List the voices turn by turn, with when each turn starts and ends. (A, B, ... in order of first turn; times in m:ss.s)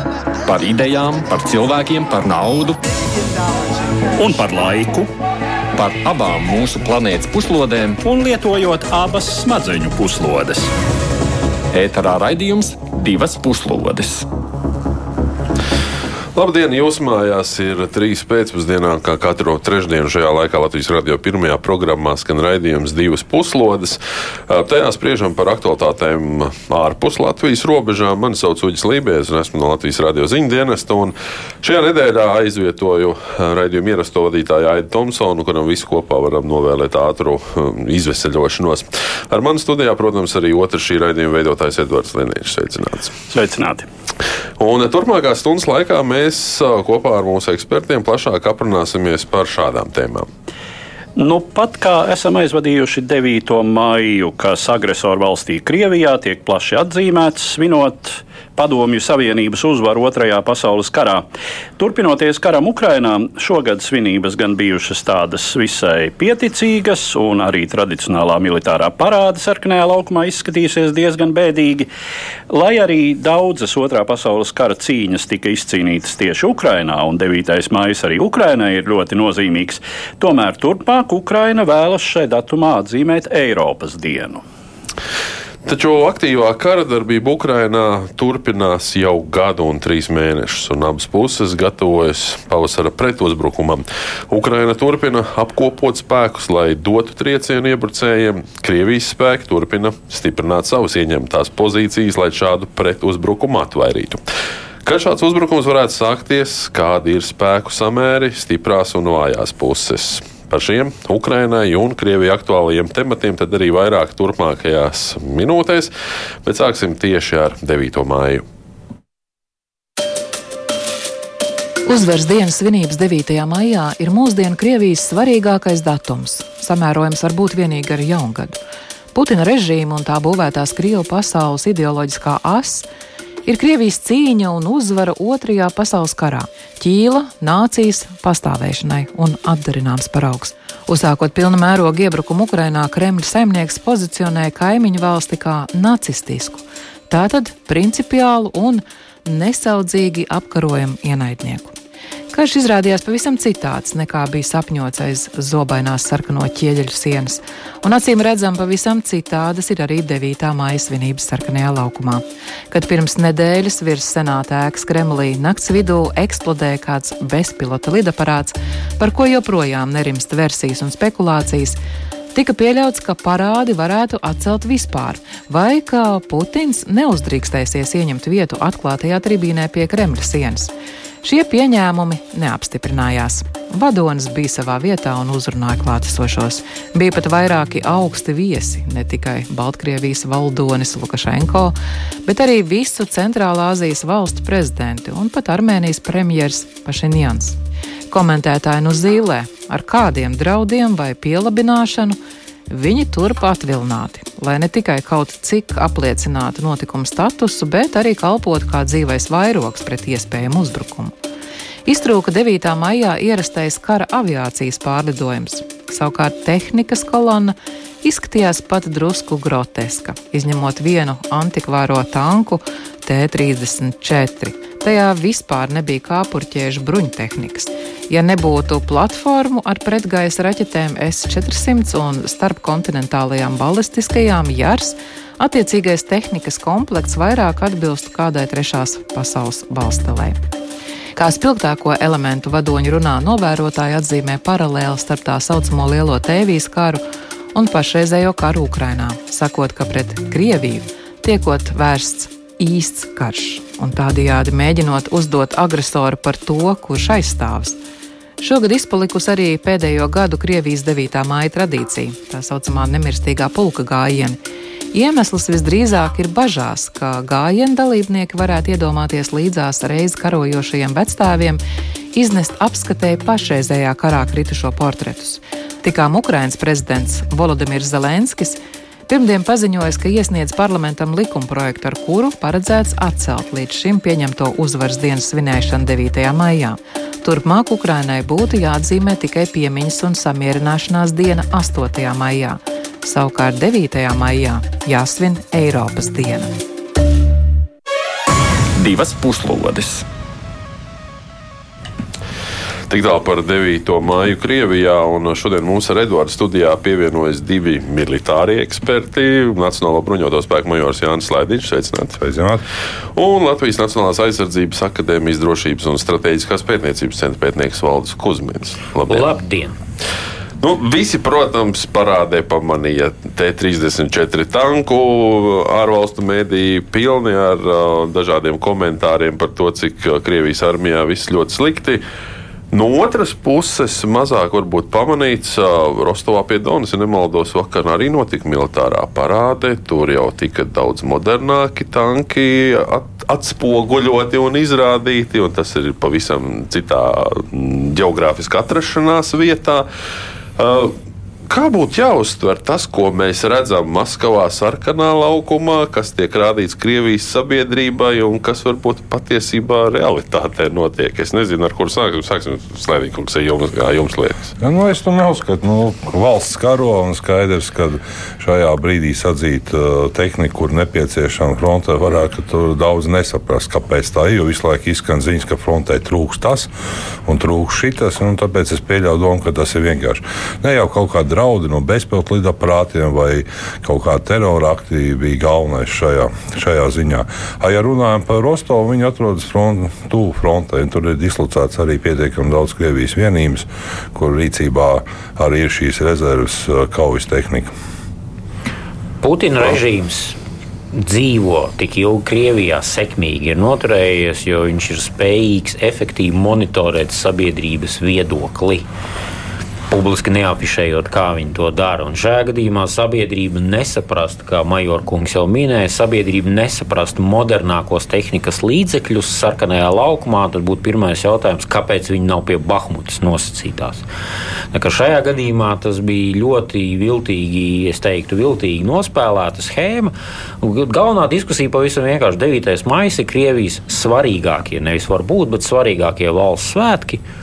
0:00.4-0:02.8 A
0:04.2-0:05.1 B
0:05.7-0:08.0 A
0:08.0-0:10.7 B
0:11.7-0:14.3 A
0:16.3-0:43.2 C
0:43.3-0:43.9 B
0:44.6-0:50.3 C
0:51.2-1:01.2 B
1:01.8-1:11.9 B
1:12.5-1:24.4 B
1:25.6-1:44.2 C
1:44.8-1:55.9 C
1:56.4-1:58.4 C
2:01.8-2:08.6 D
2:09.1-2:12.9 D
2:13.4-2:31.7 D
2:32.3-2:51.8 D
2:52.3-3:00.7 D
3:01.2-3:17.6 D
3:18.1-3:22.2 D
3:22.7-3:31.1 D
3:31.8-4:00.4 D
4:01.1-4:17.8 D
4:18.4-4:24.4 D
4:24.9-4:31.6 D
4:32.1-4:56.5 D
4:58.7-5:00.0 A
5:02.9-5:12.2 C
5:12.2-5:12.6 E
5:13.1-5:19.3 C
5:19.1-5:19.8 F
5:20.6-5:32.0 C
5:32.7-5:49.9 C
5:50.6-5:51.0 C
5:51.5-6:04.5 C
6:04.6-6:16.7 E
6:17.2-6:37.7 E
6:39.2-6:40.4 F
6:40.9-6:48.9 F
6:49.9-7:04.0 F
7:04.7-7:17.2 F